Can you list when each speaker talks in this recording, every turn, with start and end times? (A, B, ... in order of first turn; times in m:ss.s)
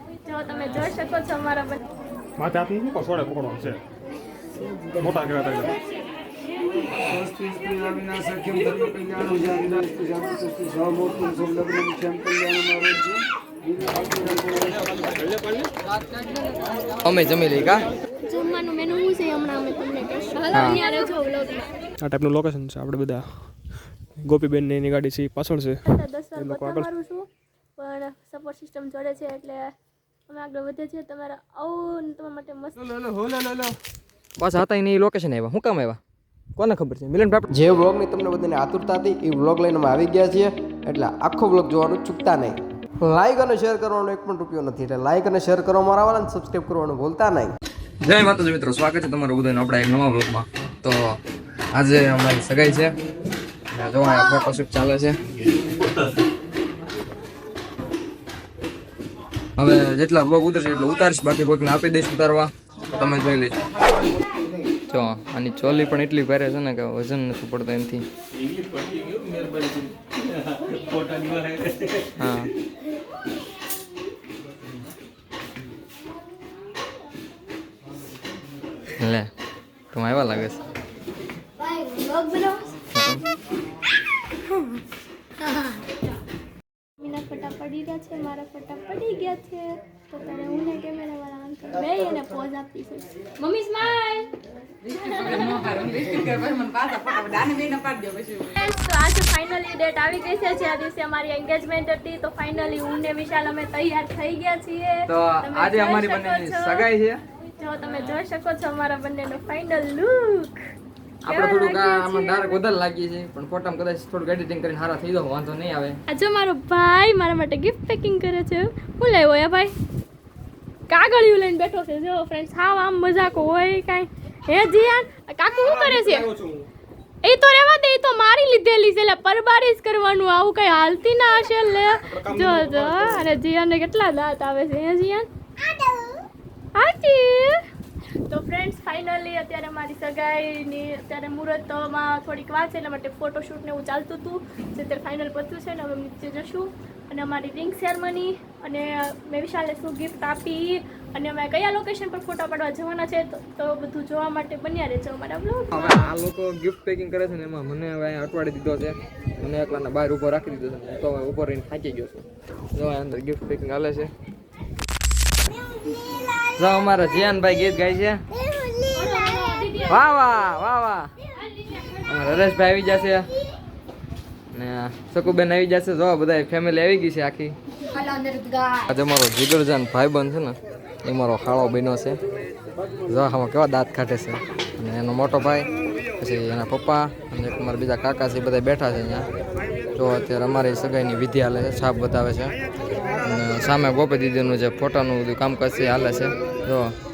0:00.2-0:01.8 A
0:02.4-0:03.8 B
0:04.9-0:05.8 B
0:06.9-0:14.9 C
0:15.0-0:15.7 B
0:17.0-0:17.9 D
0:18.3-0:21.7 A
0:20.5-0:20.8 D
0:22.0-0:23.7 B
0:24.2-0:25.8 B
0:25.8-0:27.3 A
0:26.4-0:26.9 B
0:27.8-0:29.7 A
0:30.3-0:33.0 A
0:32.9-0:33.8 B
0:34.4-0:36.0 D
0:36.6-0:37.5 D
0:37.5-0:47.5 E
0:48.0-0:51.0 D
0:51.7-0:52.9 D
0:53.7-0:55.2 D
0:59.6-1:03.6 D
1:04.9-1:08.0 D
1:12.2-1:12.5 D
1:19.0-1:19.3 D
1:19.9-1:20.6 D
1:21.6-1:22.7 A
1:22.9-1:23.2 D
1:27.0-1:46.9 A
1:45.1-1:47.2 D
1:47.6-1:50.6 A
1:51.2-1:56.0 D
1:51.3-1:52.6 A
1:56.1-1:59.7 A
2:00.9-2:06.3 A
2:05.6-2:06.7 B
2:07.2-2:16.1 A
2:12.0-2:13.3 B
2:16.7-2:17.7 A
2:18.3-2:36.0 A
2:35.7-2:42.2 D
2:42.7-2:44.1 D
2:46.6-2:48.2 D
2:48.8-2:50.0 A
2:49.9-2:51.1 D
2:52.0-2:53.2 D
2:54.5-2:57.6 D
2:58.9-3:02.2 D
3:03.1-3:09.3 D
3:10.0-3:12.6 D
3:13.2-3:16.9 D